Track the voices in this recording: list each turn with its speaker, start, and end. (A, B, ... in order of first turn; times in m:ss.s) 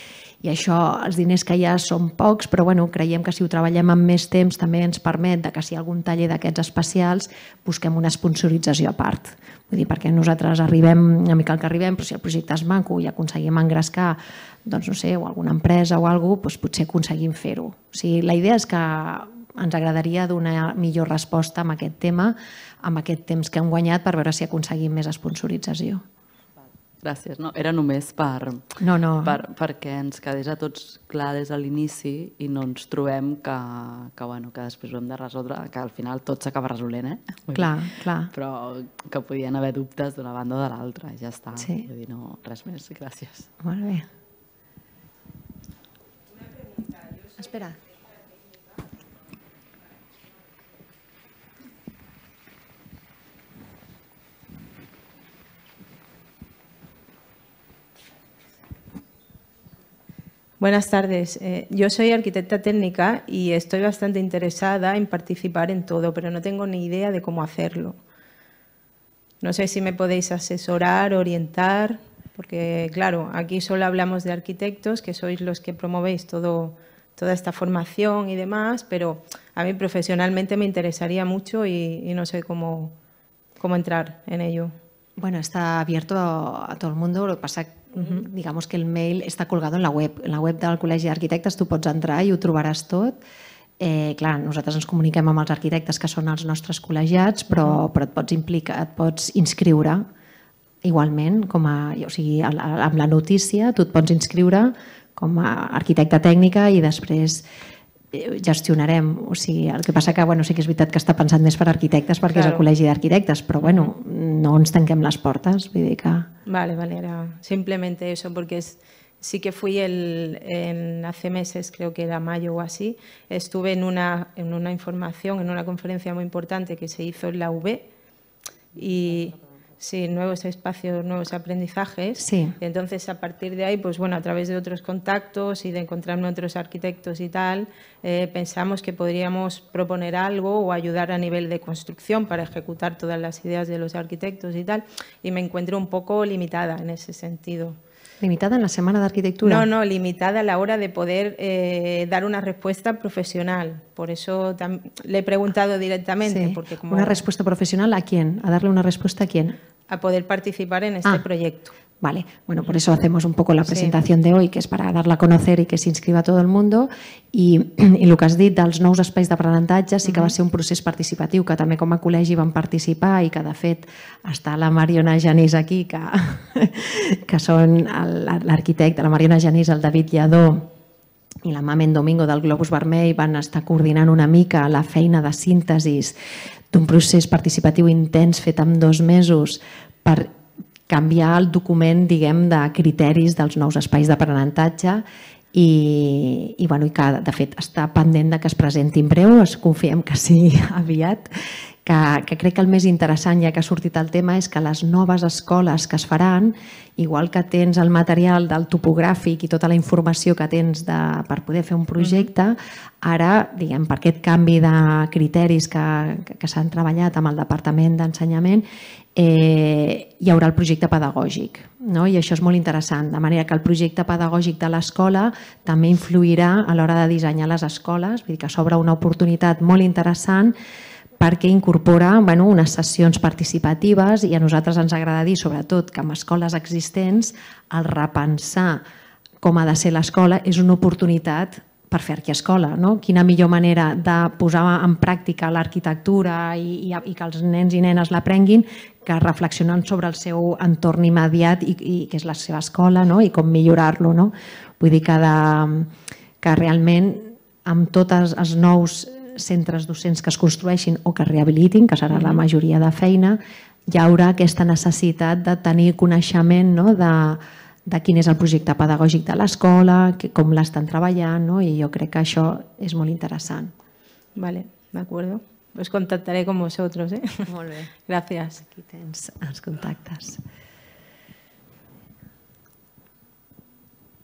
0:00.4-0:26.0 A
0:27.0-0:37.7 B
0:28.8-0:29.4 A
0:37.5-0:38.3 A
0:38.3-0:43.5 B
0:41.6-0:41.9 A
0:43.6-0:44.1 A
0:47.4-0:47.8 A
1:00.6-1:08.0 C
1:09.4-1:22.9 C
1:23.6-1:24.7 C
1:25.2-1:33.2 A
1:33.8-1:40.0 A
1:40.8-1:47.4 A
1:48.1-1:56.3 A
1:52.3-1:52.6 C
1:53.6-1:53.9 C
1:56.5-2:07.9 C
2:08.7-2:27.8 C
2:12.2-2:12.6 A
2:28.2-2:29.6 A
2:29.4-2:37.2 C
2:36.2-2:39.6 A
2:39.9-2:41.7 C
2:42.0-3:00.7 A
2:43.7-2:43.9 C
2:50.1-2:50.3 C
3:01.4-3:06.2 A
3:06.7-3:10.3 A
3:10.9-3:15.0 A
3:15.5-3:21.3 A
3:21.9-3:50.5 A
3:32.0-3:32.3 C
3:51.2-3:58.8 A
3:59.4-4:15.9 A
4:16.4-4:23.4 A
4:23.9-4:33.7 A
4:34.4-4:37.5 C
4:37.5-4:37.9 A
4:38.0-4:38.6 C
4:38.6-4:40.4 A